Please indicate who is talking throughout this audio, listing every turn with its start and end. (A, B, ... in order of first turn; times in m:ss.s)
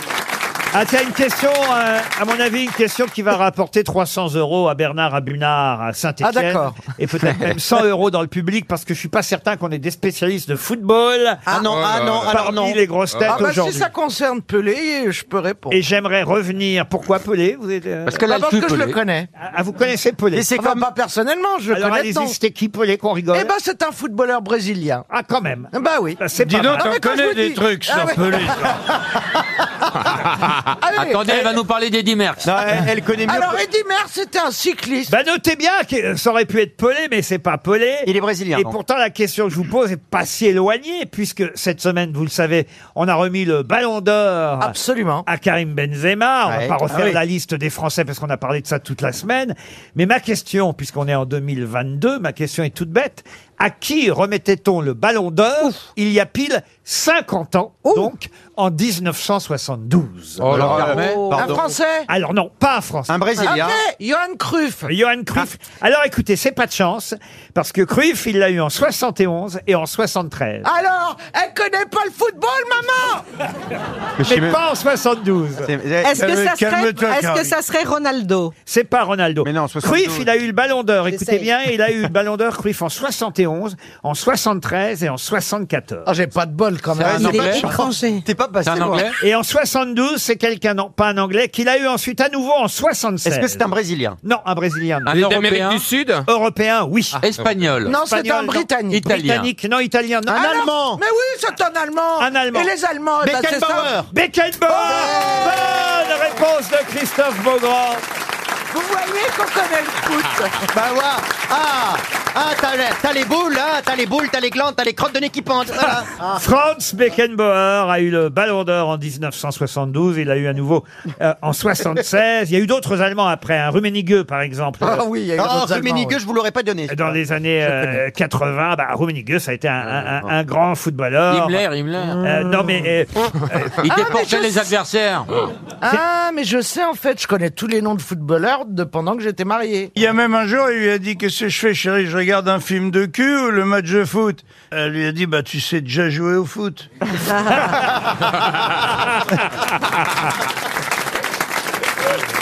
0:00.7-0:11.5 A
0:06.2-0:06.8 B
0:11.5-0:12.8 C
0:11.6-0:12.6 D
0:12.3-0:13.9 A
0:13.1-0:13.4 D
0:13.3-0:15.8 B
0:15.7-0:18.2 A
0:18.1-0:19.0 E
0:18.2-0:19.3 B
0:19.4-0:20.5 A
0:20.3-0:20.9 C
0:20.6-0:22.4 B
0:21.7-0:23.5 A
0:23.3-0:25.0 B
0:25.1-0:27.0 A
0:25.7-0:26.2 B
0:26.4-0:28.8 F
0:26.7-0:28.8 B
0:30.8-0:31.6 B
0:30.9-0:32.7 E
0:32.4-0:33.6 C
0:33.2-0:35.1 B
0:35.1-0:44.8 A
0:38.0-0:38.8 C
0:44.6-0:45.2 B
0:45.3-1:00.8 A
0:46.5-0:47.2 C
1:00.4-1:01.3 E
1:00.4-1:01.8 C
1:00.5-1:01.0 D
1:00.9-1:01.6 G
1:01.0-1:02.1 B
1:02.1-1:03.5 A
1:03.1-1:03.8 C
1:03.4-1:04.9 B
1:04.9-1:10.7 A
1:10.6-1:13.2 B
1:14.2-1:14.6 C
1:14.2-1:15.7 A
1:15.6-1:16.1 C
1:16.0-1:18.5 G
1:16.2-1:17.6 F
1:18.7-1:26.1 A
1:19.4-1:20.3 C
1:21.1-1:21.5 G
1:26.1-1:27.8 B
1:27.0-1:27.6 E
1:27.0-1:29.1 C
1:27.1-1:28.2 G
1:28.6-1:29.2 E
1:29.2-1:33.7 A
1:33.2-1:34.2 C
1:34.2-1:35.2 A
1:35.1-1:35.8 E
1:35.1-1:36.3 D
1:36.3-1:37.2 A
1:37.2-1:38.0 E
1:37.9-1:39.1 B
1:38.0-1:40.5 A
1:38.9-1:39.5 E
1:40.3-1:41.0 C
1:40.3-1:44.0 B
1:42.2-1:42.7 A
1:43.2-1:44.1 C
1:44.1-1:48.0 A
1:44.7-1:46.1 B
1:48.7-1:50.6 B
1:50.7-1:56.4 C
1:56.3-2:05.1 A
2:04.8-2:06.2 B
2:05.4-2:07.2 C
2:06.9-2:11.6 A
2:09.9-2:10.3 C
2:11.3-2:12.2 E
2:12.2-2:12.7 B
2:12.2-2:13.9 A
2:13.8-2:15.3 E
2:13.8-2:14.7 B
2:15.8-2:19.9 B
2:20.0-2:26.9 F